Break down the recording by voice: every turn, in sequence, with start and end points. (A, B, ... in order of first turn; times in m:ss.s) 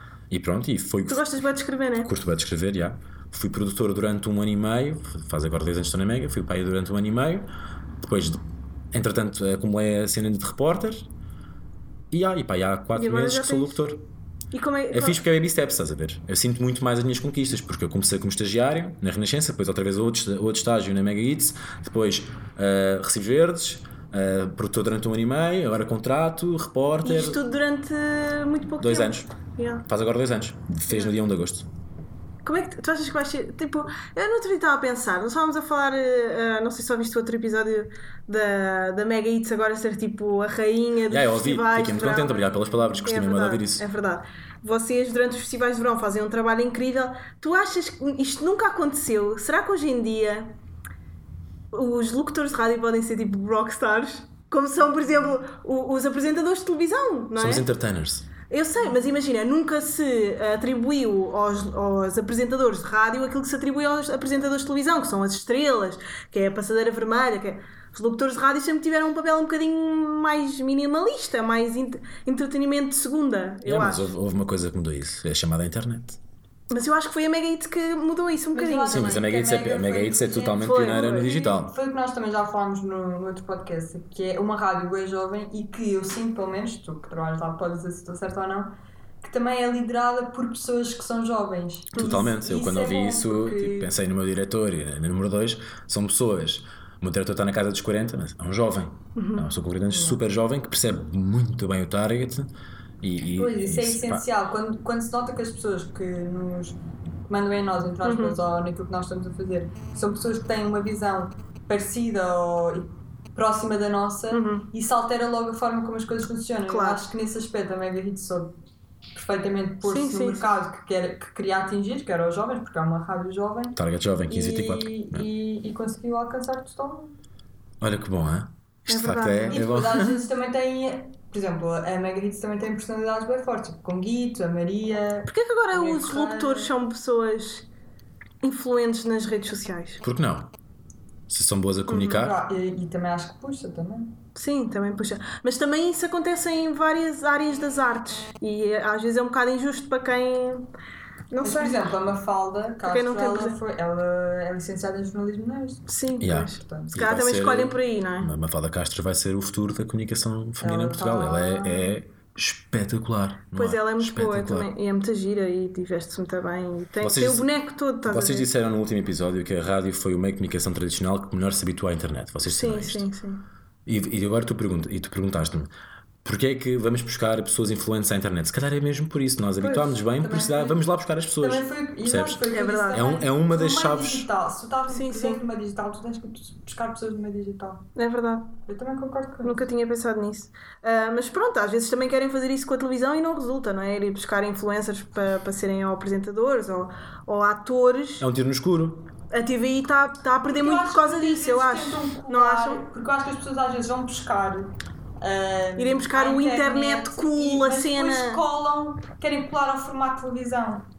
0:00.3-0:01.4 A
0:01.1-0:02.1 B
0:02.0-0:07.5 A
0:08.0-0:11.1 A
0:12.1-0:14.0 A
0:12.9-0:13.8 B
0:14.5-0:15.2 B
0:14.9-0:27.4 A
0:27.0-0:29.8 B
0:28.8-0:29.3 A
0:29.9-0:31.7 A
0:32.4-0:50.5 B
0:41.1-0:43.8 A
0:51.7-0:57.7 B
0:57.4-0:58.3 A
0:58.5-1:14.1 B
1:13.6-1:16.2 A
1:16.7-1:19.2 B
1:18.5-1:33.9 C
1:18.9-1:21.7 A
1:20.6-1:21.3 B
1:31.9-1:42.5 A
1:39.2-1:40.2 B
1:43.0-1:44.2 A
1:43.4-1:58.6 C
1:48.0-1:48.4 B
1:54.3-1:54.7 B
1:56.7-1:57.0 B
1:59.1-2:03.8 C
1:59.8-2:00.5 B
2:03.8-2:05.3 A
2:04.3-2:07.1 C
2:07.8-2:10.1 A
2:08.9-2:10.2 B
2:09.5-2:16.7 C
2:15.3-2:17.7 B
2:18.4-2:20.0 B
2:20.0-2:20.5 A
2:21.3-2:22.4 A
2:21.9-2:22.3 B
2:22.1-2:24.2 C
2:24.3-2:30.7 B
2:31.3-2:31.8 B
2:31.4-2:35.9 C
2:32.8-2:33.6 B
2:35.9-2:38.3 B
2:36.2-2:44.7 A
2:36.4-2:37.0 C
2:40.6-2:41.9 C
2:43.5-2:48.5 B
2:47.0-2:47.5 A
2:48.0-2:53.1 A
2:52.4-2:53.4 B
2:53.8-2:55.7 A
2:56.2-3:04.3 A
2:59.6-3:00.8 C
3:01.4-3:07.9 C
3:02.5-3:03.1 B
3:04.9-3:05.4 B
3:08.0-3:08.6 B
3:08.6-3:09.6 C
3:09.4-3:18.3 B
3:18.2-3:19.1 A
3:19.3-3:22.8 B
3:20.4-3:30.9 C
3:25.8-3:28.4 B